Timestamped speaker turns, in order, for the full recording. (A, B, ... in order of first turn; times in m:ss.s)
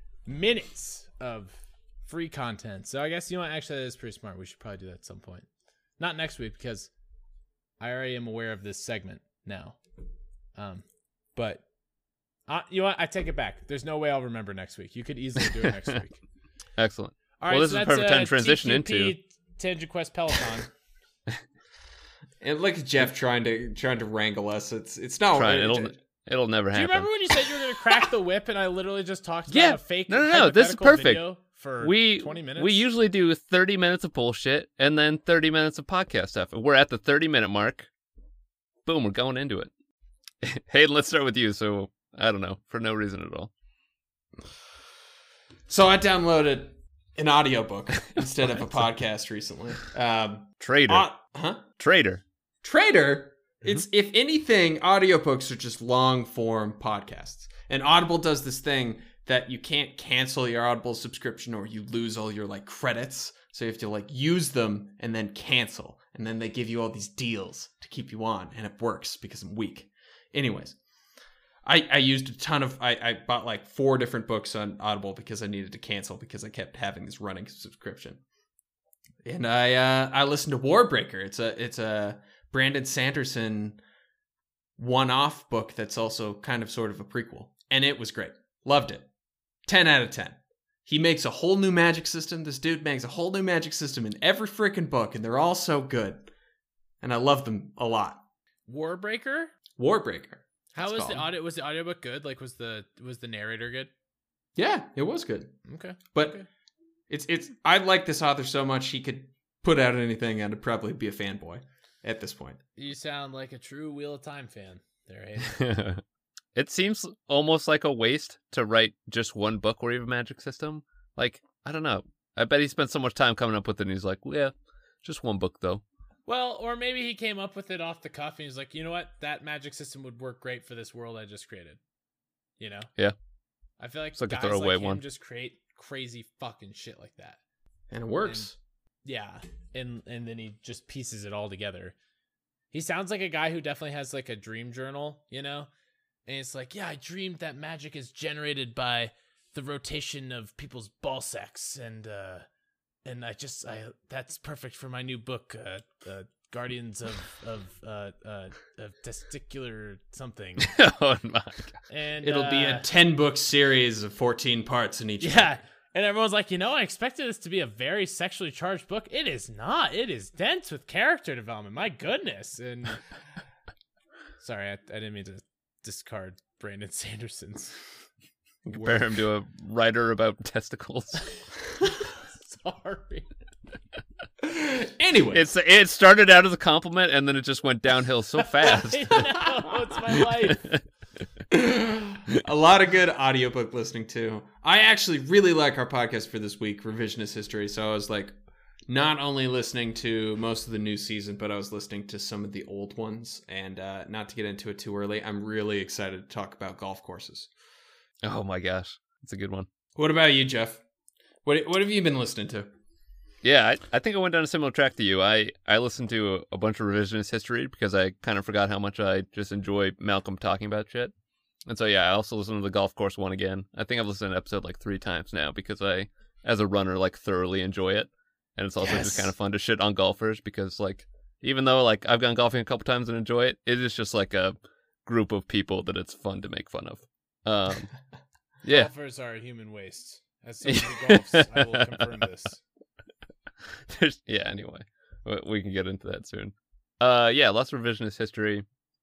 0:00.2-0:05.5 A
0:06.0-0:06.9 A
0:07.8-0:09.8 A
0:10.6-0:11.6 A
0:12.5-0:16.2 A
0:16.8-0:19.1 B
0:17.4-0:20.7 A
0:22.4-0:26.0 C
0:25.3-0:27.1 B
0:26.7-0:32.8 A
0:29.5-0:31.2 B
0:31.8-0:37.9 B
0:38.8-0:39.7 B
0:40.4-0:43.5 B
0:45.7-0:51.6 C
0:50.6-0:51.1 B
0:51.8-0:52.2 B
0:52.6-1:10.8 C
1:11.6-1:18.2 C
1:19.2-1:23.8 C
1:24.8-1:29.1 C
1:29.6-1:36.3 C
1:37.0-1:38.2 C
1:38.7-1:39.5 A
1:39.8-1:41.3 C
1:40.7-1:43.9 A
1:44.6-1:45.6 C
1:45.6-1:46.5 A
1:46.1-1:46.4 C
1:47.1-1:52.6 C
1:52.8-1:55.6 A
1:55.5-1:56.0 B
1:56.6-2:04.5 B
2:05.0-2:05.8 B
2:06.3-2:11.8 A
2:12.6-2:12.9 A
2:13.8-2:17.4 A
2:14.2-2:15.0 B
2:17.9-2:18.6 C
2:19.0-2:21.9 A
2:22.7-2:25.7 A
2:26.3-2:32.4 A
2:33.0-2:40.7 A
2:40.6-2:41.8 B
2:41.9-2:42.8 A
2:42.2-2:45.6 C
2:45.2-2:53.0 A
2:54.4-2:57.8 A
2:58.6-3:01.4 B
2:58.7-2:59.1 A
3:02.0-3:03.3 A
3:04.4-3:05.5 C
3:05.3-3:09.4 B
3:08.6-3:10.7 A
3:10.1-3:10.8 B
3:11.5-3:18.4 C
3:18.9-3:27.5 C
3:28.2-3:29.7 B
3:29.9-3:30.8 C
3:31.4-3:32.7 C
3:33.4-3:41.1 B
3:41.6-3:54.5 B
3:48.8-3:49.2 C
3:55.0-3:57.9 B
3:58.6-3:58.9 B
3:58.7-4:02.6 A
4:00.6-4:02.1 B
4:03.6-4:08.6 B